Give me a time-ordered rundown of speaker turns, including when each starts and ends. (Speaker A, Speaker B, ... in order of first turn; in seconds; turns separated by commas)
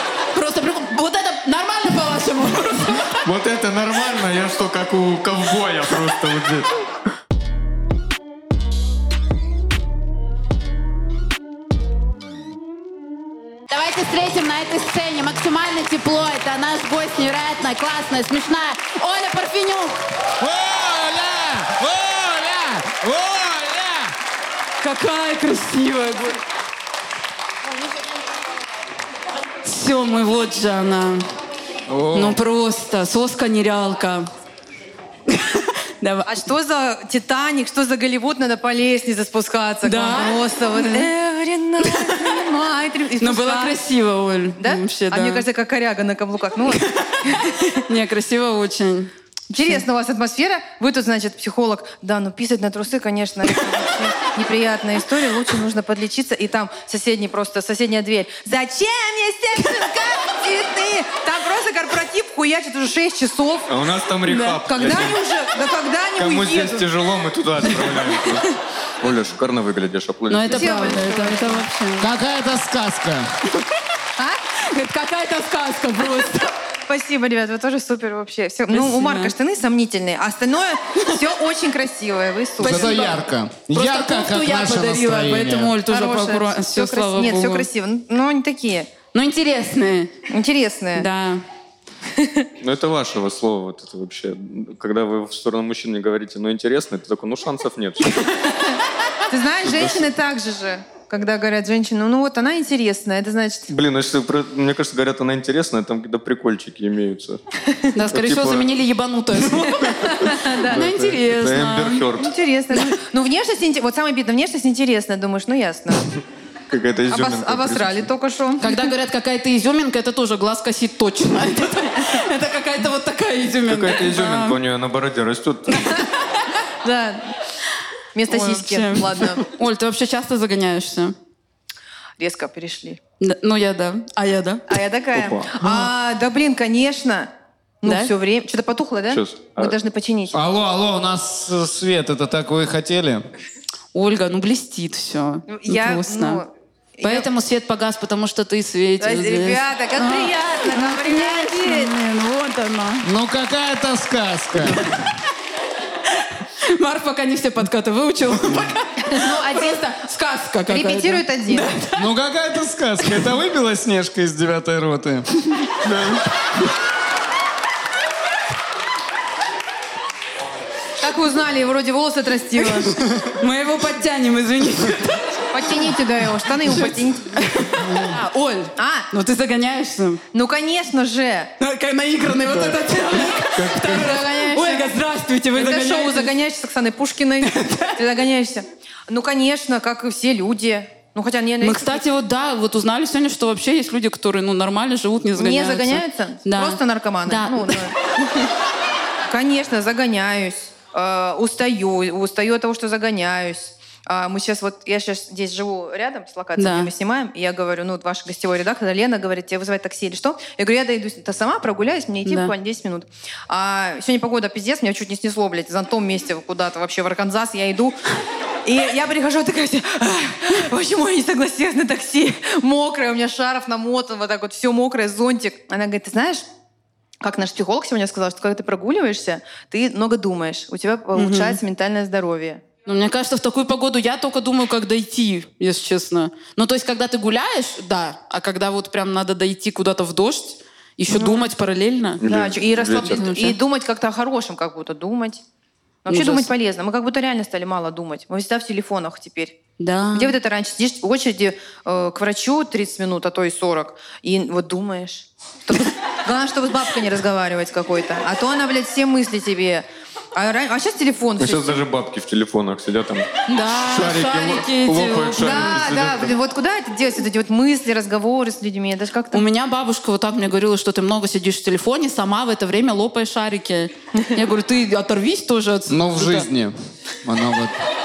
Speaker A: 0.3-3.2, Speaker B: 3.2-6.7, Speaker A: 13.7-20.0, Speaker C: 20.4-24.1, Speaker A: 24.8-26.4, Speaker A: 29.6-31.3, Speaker C: 31.9-32.4, Speaker A: 32.1-34.3, Speaker A: 35.3-36.4, Speaker D: 36.3-43.8, Speaker A: 39.8-41.1, Speaker A: 41.9-42.3, Speaker A: 43.2-45.5, Speaker D: 44.6-47.8, Speaker A: 46.8-47.1, Speaker A: 47.9-49.1, Speaker D: 49.5-63.8, Speaker B: 63.7-65.2, Speaker D: 64.6-66.9, Speaker B: 66.2-68.5, Speaker B: 69.0-70.9, Speaker A: 70.3-72.1, Speaker D: 70.5-71.6, Speaker C: 72.0-73.3, Speaker A: 74.7-76.5, Speaker D: 76.9-83.2, Speaker A: 78.7-79.3, Speaker C: 82.6-85.8, Speaker A: 82.7-83.0, Speaker A: 83.7-87.7, Speaker D: 85.9-88.9, Speaker A: 89.1-90.1, Speaker D: 90.3-91.1, Speaker A: 91.0-91.4, Speaker D: 92.1-92.5, Speaker B: 92.6-98.3, Speaker D: 99.3-103.7, Speaker B: 99.6-100.1, Speaker B: 103.7-107.4, Speaker A: 107.9-110.1, Speaker B: 108.1-108.7, Speaker D: 109.8-110.9, Speaker A: 110.7-112.1, Speaker B: 110.7-112.3, Speaker D: 112.2-116.1, Speaker B: 116.7-118.1, Speaker D: 117.1-118.9, Speaker A: 118.6-124.6, Speaker B: 123.7-126.0, Speaker D: 126.8-127.3, Speaker D: 128.1-129.5, Speaker A: 128.3-131.2, Speaker D: 132.2-133.0, Speaker A: 133.2-134.7, Speaker D: 134.7-137.3, Speaker B: 135.2-135.5, Speaker D: 137.8-140.4, Speaker A: 137.8-138.1, Speaker B: 139.1-139.8, Speaker C: 140.3-143.3, Speaker A: 143.9-146.4, Speaker D: 145.5-147.3, Speaker A: 147.0-153.1, Speaker D: 149.0-151.9, Speaker C: 153.0-154.9, Speaker A: 154.7-155.0, Speaker A: 156.6-162.0, Speaker D: 159.1-159.8, Speaker D: 160.7-161.7, Speaker C: 161.9-165.3, Speaker A: 163.0-163.3, Speaker B: 165.8-166.2, Speaker D: 171.0-172.9, Speaker A: 172.6-175.4, Speaker D: 175.5-177.4, Speaker A: 176.7-180.2, Speaker C: 177.8-178.1, Speaker D: 178.8-179.1, Speaker D: 180.3-181.5, Speaker A: 181.6-186.3, Speaker B: 182.5-182.9, Speaker B: 183.4-184.2, Speaker D: 183.8-184.9, Speaker D: 185.6-192.0, Speaker A: 187.5-188.0, Speaker A: 191.6-197.8, Speaker D: 195.4-198.5, Speaker D: 199.3-218.0, Speaker A: 206.6-206.9, Speaker A: 212.3-212.5, Speaker D: 218.7-226.4, Speaker D: 227.2-232.6, Speaker A: 231.2-231.6, Speaker A: 232.9-242.2, Speaker D: 241.1-241.4, Speaker B: 242.2-243.3, Speaker D: 242.2-245.4, Speaker A: 243.1-243.6, Speaker D: 246.1-249.6, Speaker A: 246.1-246.5, Speaker A: 249.8-250.3, Speaker D: 250.1-261.8, Speaker B: 261.4-266.3, Speaker A: 263.5-265.4, Speaker D: 265.4-269.4, Speaker A: 269.3-276.5, Speaker C: 275.9-277.8